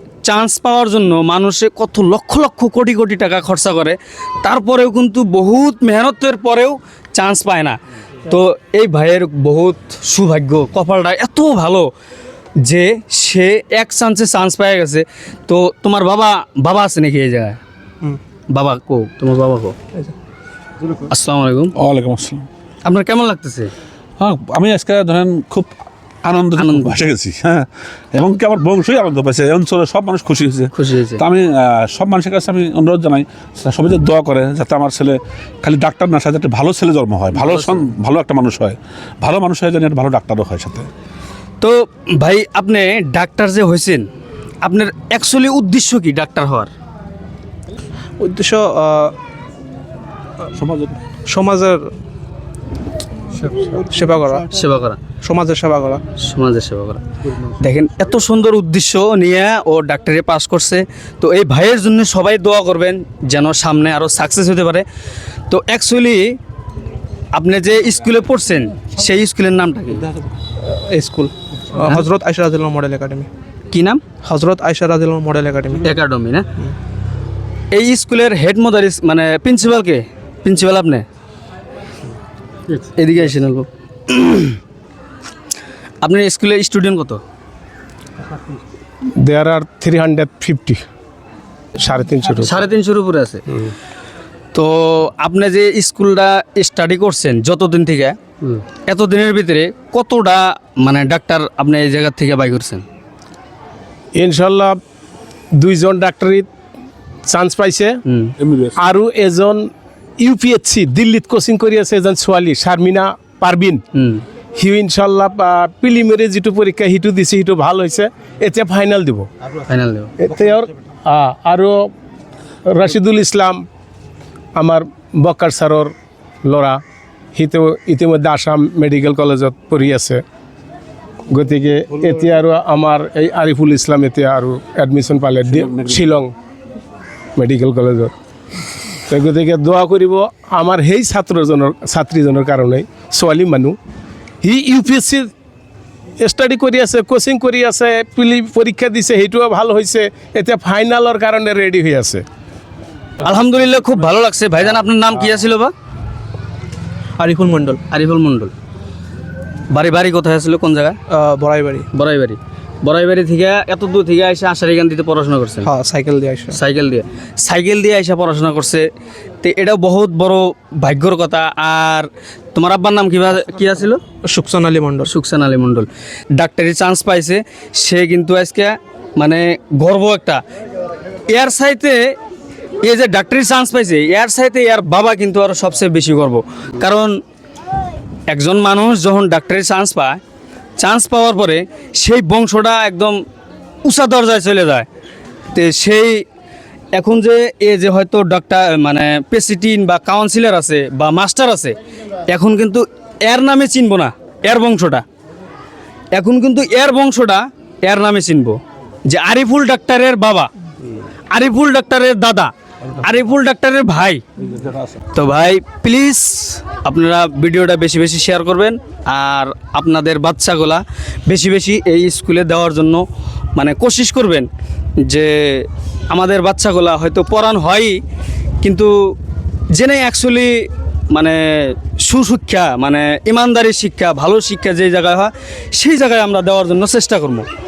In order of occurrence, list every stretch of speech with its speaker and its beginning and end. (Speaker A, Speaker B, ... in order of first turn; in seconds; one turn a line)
Speaker A: 0.2-11.9
Speaker A: 12.6-17.6
Speaker A: 18.5-19.8
Speaker A: 20.9-21.7
Speaker B: 21.8-22.5
Speaker A: 22.9-23.7
Speaker B: 24.2-25.7
Speaker B: 26.2-40.9
Speaker A: 26.6-27.0
Speaker A: 30.7-31.2
Speaker A: 37.4-37.9
Speaker A: 41.6-44.1
Speaker A: 44.6-46.7
Speaker C: 48.2-49.1
Speaker B: 50.5-51.0
Speaker C: 51.3-51.9
Speaker C: 53.4-54.5
Speaker A: 54.5-55.0
Speaker C: 55.2-56.0
Speaker A: 56.2-57.0
Speaker A: 57.6-64.8
Speaker A: 65.5-66.4
Speaker A: 67.3-70.1
Speaker C: 70.6-73.3
Speaker A: 73.7-74.0
Speaker C: 74.2-75.9
Speaker A: 75.8-76.5
Speaker A: 77.7-81.0
Speaker A: 82.8-84.6
Speaker A: 86.0-87.2
Speaker D: 89.2-90.8
Speaker D: 91.8-92.6
Speaker A: 92.4-93.4
Speaker A: 94.5-102.8
Speaker D: 104.1-104.8
Speaker D: 105.6-106.5
Speaker D: 107.2-108.0
Speaker A: 108.0-108.3
Speaker B: 108.4-108.8
Speaker D: 108.8-109.7
Speaker D: 110.2-113.8
Speaker A: 113.9-114.2
Speaker D: 114.5-119.3
Speaker A: 119.7-120.1
Speaker D: 120.2-121.9
Speaker D: 122.7-123.6
Speaker D: 124.6-125.9
Speaker D: 126.5-126.8
Speaker D: 127.3-130.2
Speaker D: 131.3-136.3
Speaker B: 135.4-136.0
Speaker D: 137.4-138.1
Speaker D: 139.1-143.8
Speaker D: 144.4-145.3
Speaker D: 146.2-152.2
Speaker A: 153.2-155.7
Speaker C: 157.2-157.8
Speaker A: 157.9-158.5
Speaker A: 159.7-161.0
Speaker C: 161.1-161.9
Speaker A: 161.9-165.7
Speaker C: 165.6-166.6
Speaker A: 166.5-168.9
Speaker A: 169.4-174.0
Speaker C: 174.2-175.1
Speaker A: 175.1-180.4
Speaker A: 181.3-182.1
Speaker A: 182.8-187.2
Speaker A: 188.3-190.2
Speaker A: 190.8-193.2
Speaker A: 193.8-194.9
Speaker A: 195.5-196.2
Speaker A: 196.9-201.8
Speaker A: 202.3-205.0
Speaker A: 206.1-210.5
Speaker A: 211.3-214.2
Speaker A: 215.1-224.5
Speaker A: 225.0-228.0
Speaker A: 228.6-229.1
Speaker A: 229.7-237.5